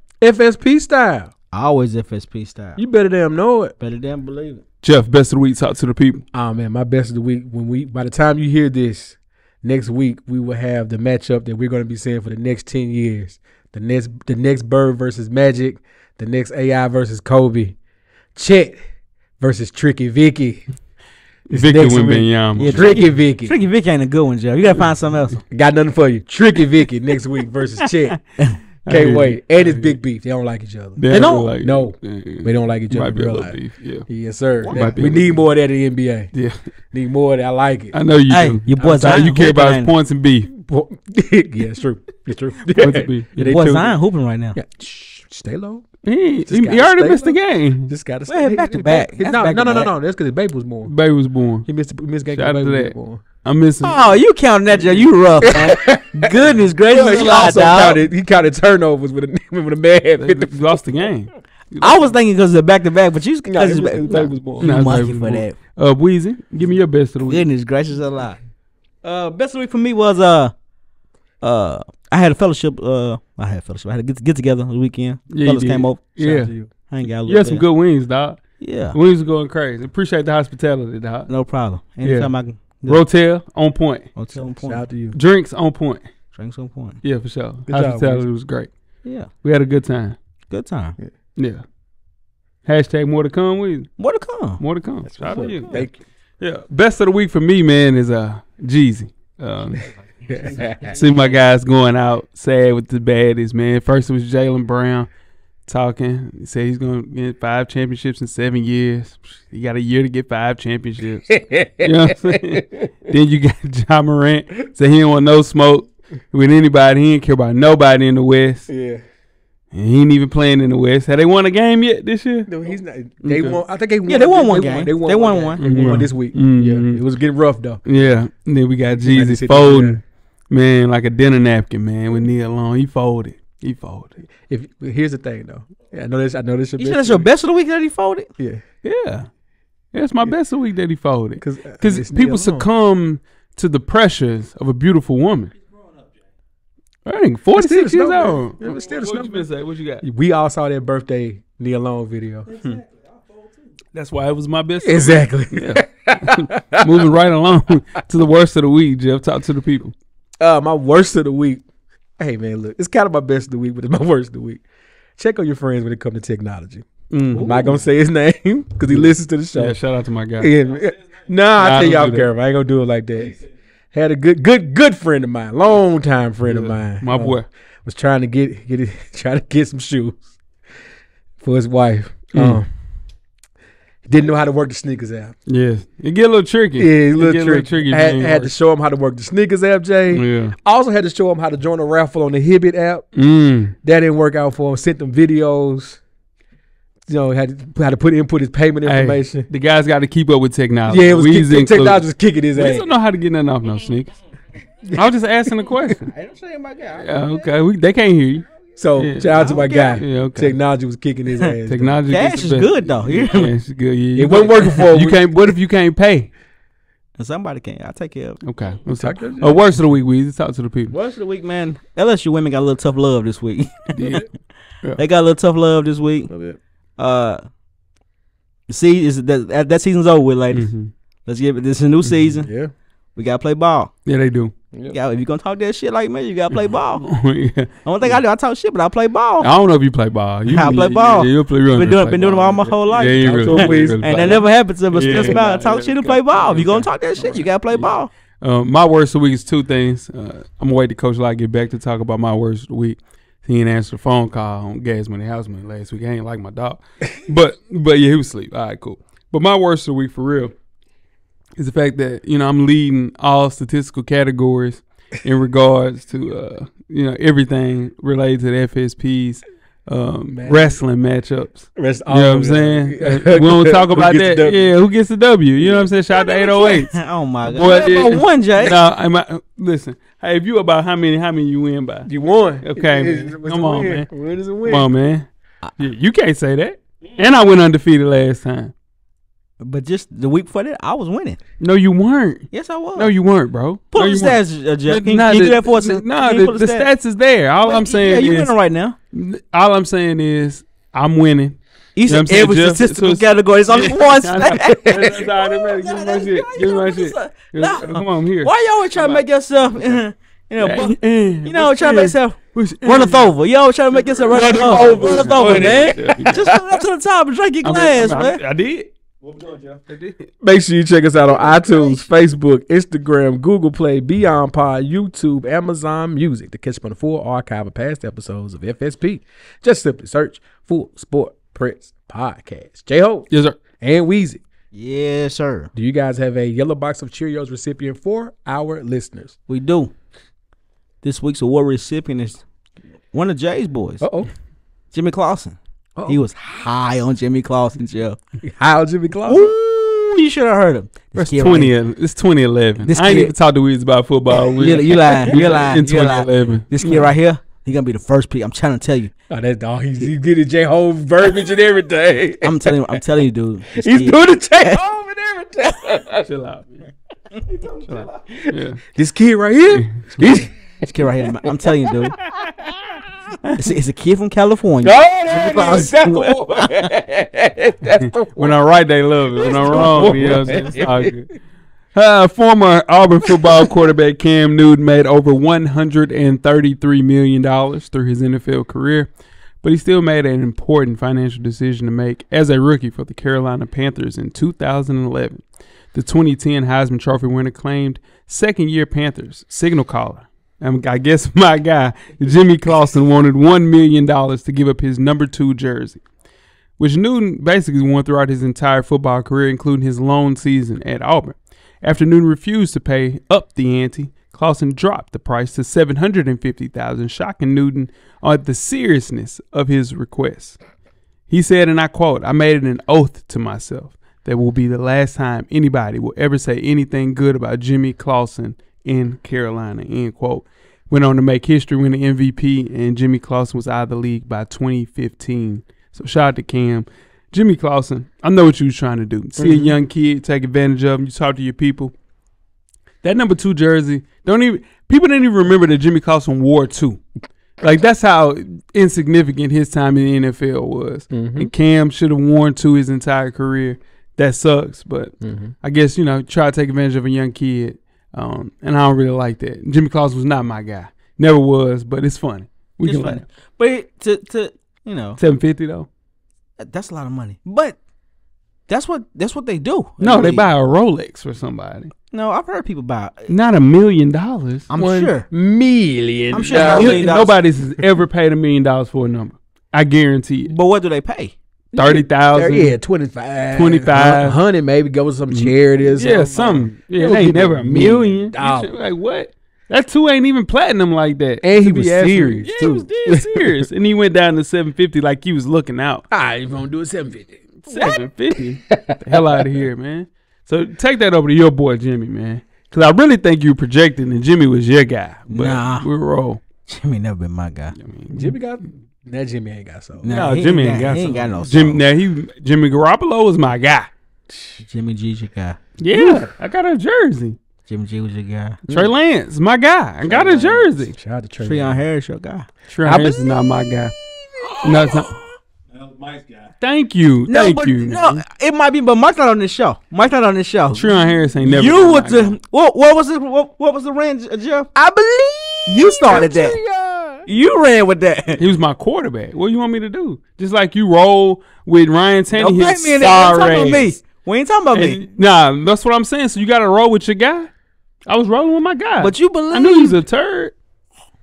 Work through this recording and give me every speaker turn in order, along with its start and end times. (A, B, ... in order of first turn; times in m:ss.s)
0:00.2-0:01.3 A
0:01.5-0:02.8 B
0:02.8-0:03.7 A
0:03.8-0:04.6 B
0:04.8-0:06.2 C
0:06.3-0:17.8 A
0:18.4-0:18.8 A
0:19.4-0:20.7 A
0:21.5-0:23.6 A
0:21.5-0:22.9 C
0:22.6-0:25.4 B
0:25.5-0:28.2 A
0:28.8-0:29.9 C
0:28.9-0:36.3 A
0:31.0-0:34.1 C
0:31.1-0:31.5 B
0:34.6-0:35.0 B
0:34.7-0:35.4 C
0:36.9-0:38.0 A
0:37.9-0:40.5 C
0:38.3-0:39.9 B
0:38.8-0:39.3 A
0:40.5-0:44.0 A
0:42.7-0:43.6 C
0:43.4-0:44.6 B
0:44.6-0:45.9 A
0:46.0-0:47.9 C
0:46.5-0:50.9 A
0:48.3-0:49.9 B
0:50.8-0:51.7 C
0:51.7-0:53.2 A
0:52.3-0:54.2 C
0:53.8-0:58.0 B
0:55.4-1:00.6 A
1:00.2-1:02.0 C
1:01.8-1:05.6 B
1:03.5-1:04.8 A
1:04.6-1:07.4 C
1:07.3-1:08.4 B
1:09.0-1:10.6 B
1:11.4-1:16.0 B
1:15.3-1:16.5 C
1:16.2-1:16.7 A
1:16.9-1:17.6 B
1:17.2-1:21.3 C
1:18.6-1:19.0 B
1:21.3-1:23.0 B
1:22.0-1:22.3 C
1:22.9-1:24.1 C
1:24.2-1:24.9 B
1:24.3-1:25.2 A
1:25.1-1:26.0 C
1:26.3-1:27.0 B
1:27.0-1:28.7 C
1:27.7-1:28.2 A
1:29.0-1:29.3 B
1:29.4-1:30.2 C
1:30.5-1:31.0 B
1:31.4-1:31.6 C
1:32.6-1:34.0 C
1:34.0-1:34.6 B
1:34.6-1:35.8 C
1:35.1-1:36.0 A
1:35.3-1:35.8 B
1:36.4-1:39.9 C
1:40.3-1:41.0 A
1:40.9-1:45.1 C
1:45.7-1:58.7 C
1:51.3-1:52.6 A
1:58.7-1:59.0 A
1:59.7-2:02.5 C
2:02.5-2:07.8 A
2:03.2-2:03.6 C
2:04.1-2:06.0 B
2:05.6-2:07.0 C
2:07.8-2:14.2 C
2:09.0-2:10.0 A
2:14.5-2:17.3 A
2:16.8-2:18.3 B
2:18.4-2:18.6 A
2:18.8-2:19.3 C
2:19.9-2:25.5 C
2:21.4-2:22.7 A
2:27.1-2:30.1 C
2:27.5-2:29.5 A
2:30.0-2:32.6 A
2:33.9-2:39.9 C
2:34.8-2:37.1 A
2:40.4-2:41.6 A
2:42.2-2:44.6 A
2:45.2-2:46.9 A
2:47.1-2:47.8 C
2:47.3-2:47.8 B
2:47.4-2:49.8 A
2:48.9-2:50.6 C
2:50.4-2:53.4 A
2:51.6-2:52.3 C
2:53.9-3:00.3 A
2:56.5-2:57.5 C
3:01.4-3:02.7 A
3:02.3-3:02.6 C
3:04.0-3:05.4 A
3:05.5-3:08.5 C
3:06.8-3:13.1 A
3:10.1-3:10.6 C
3:13.2-3:13.8 C
3:13.8-3:16.0 A
3:17.1-3:19.5 A
3:18.8-3:22.0 C
3:20.9-3:22.9 A
3:22.6-3:24.2 C
3:24.9-3:26.1 C
3:26.1-3:27.5 B
3:27.0-3:30.6 C
3:28.8-3:32.0 A
3:29.3-3:30.0 B
3:31.7-3:36.3 C
3:32.1-3:33.5 B
3:34.2-3:35.3 A
3:37.2-3:38.4 B
3:38.4-3:40.9 C
3:38.9-3:39.7 A
3:40.9-3:44.2 B
3:44.0-3:44.3 C
3:45.0-3:46.3 B
3:46.3-3:46.6 A
3:47.0-3:47.4 B
3:48.7-3:50.7 B
3:50.5-3:50.9 C
3:51.3-3:52.5 B
3:52.4-3:52.7 A
3:53.2-3:53.9 B
3:54.1-3:54.5 C
3:54.9-3:57.1 B
3:56.9-3:58.1 C
3:57.8-3:59.5 B
3:59.4-4:20.6 C
4:00.5-4:08.1 B
4:03.1-4:04.4 A
4:05.0-4:05.4 A
4:21.6-4:42.1 C
4:30.3-4:30.8 A
4:31.8-4:34.7 A
4:36.1-4:38.8 B
4:42.1-4:44.9 A
4:42.6-4:44.1 C
4:44.6-4:48.7 C
4:49.6-4:51.4 B
4:51.6-4:58.5 C
4:52.5-4:53.1 B
4:53.9-4:56.9 B
4:57.6-4:59.0 B
4:59.1-5:09.2 C
5:02.0-5:18.4 B
5:10.6-5:13.3 C
5:14.3-5:16.6 C
5:14.3-5:16.6 A
5:17.6-5:18.9 C
5:19.9-5:20.3 C
5:20.4-5:34.4 A
5:21.5-5:22.0 B
5:33.3-5:33.6 C
5:34.7-5:35.7 B
5:35.8-5:39.4 A
5:39.5-5:39.9 B
5:41.0-5:42.4 B
5:43.1-5:44.0 B
5:44.0-5:44.3 A
5:44.9-5:48.2 B
5:48.4-5:49.5 A
5:49.3-5:51.7 B
5:51.2-5:57.0 C
5:52.8-5:53.3 B
5:54.6-5:59.1 B
5:55.1-5:56.0 A
5:59.3-6:03.0 A
6:02.4-6:04.8 B
6:03.7-6:06.3 A
6:06.2-6:06.7 C
6:07.5-6:10.9 A
6:07.9-6:08.8 C
6:09.8-6:10.3 C
6:10.8-6:12.2 B
6:11.6-6:11.9 A
6:13.6-6:16.8 B
6:14.8-6:18.6 A
6:18.2-6:21.3 C
6:19.4-6:21.1 A
6:20.0-6:20.6 B
6:21.9-6:29.1 C
6:29.6-6:35.4 C
6:35.9-6:46.0 C
6:46.8-7:00.6 C
7:01.3-7:21.9 C
7:19.4-7:19.8 A
7:23.0-7:27.0 C
7:27.6-7:43.2 C
7:31.1-7:31.5 A
7:35.2-7:35.6 A
7:42.8-7:45.2 B
7:45.2-7:45.9 C
7:46.6-7:47.8 B
7:48.7-7:50.5 B
7:50.0-7:51.9 C
7:52.1-7:53.3 B
7:53.3-7:54.7 C
7:54.7-7:55.3 B
7:54.8-7:57.2 A
7:56.3-7:57.3 B
7:56.5-8:00.5 C
8:00.5-8:01.3 B
8:01.7-8:08.7 A
8:01.8-8:02.8 C
8:03.5-8:04.4 C
8:05.3-8:16.1 C
8:11.4-8:13.5 A
8:16.1-8:19.6 A
8:17.6-8:26.4 C
8:25.3-8:25.9 B
8:26.7-8:27.8 B
8:27.8-8:28.4 C
8:28.1-8:30.2 A
8:30.0-8:31.8 B
8:30.1-8:33.9 C
8:34.3-8:34.6 A
8:34.6-8:35.6 B
8:35.8-8:37.4 C
8:35.9-8:36.3 A
8:37.7-8:38.6 B
8:38.7-8:38.9 A
8:38.7-8:40.9 C
8:40.1-8:41.8 A
8:41.4-8:42.5 B
8:42.7-8:44.0 C
8:42.8-8:43.3 A
8:44.4-8:45.2 B
8:44.5-8:45.2 C
8:46.6-8:48.2 C
8:47.3-8:50.9 B
8:50.7-8:52.4 C
8:51.4-8:54.7 B
8:54.8-8:57.3 A
8:55.7-8:56.6 B
8:57.3-8:58.4 B
8:58.4-9:04.0 C
9:02.3-9:05.0 B
9:04.7-9:07.5 C
9:08.1-9:10.6 C
9:09.0-9:10.0 B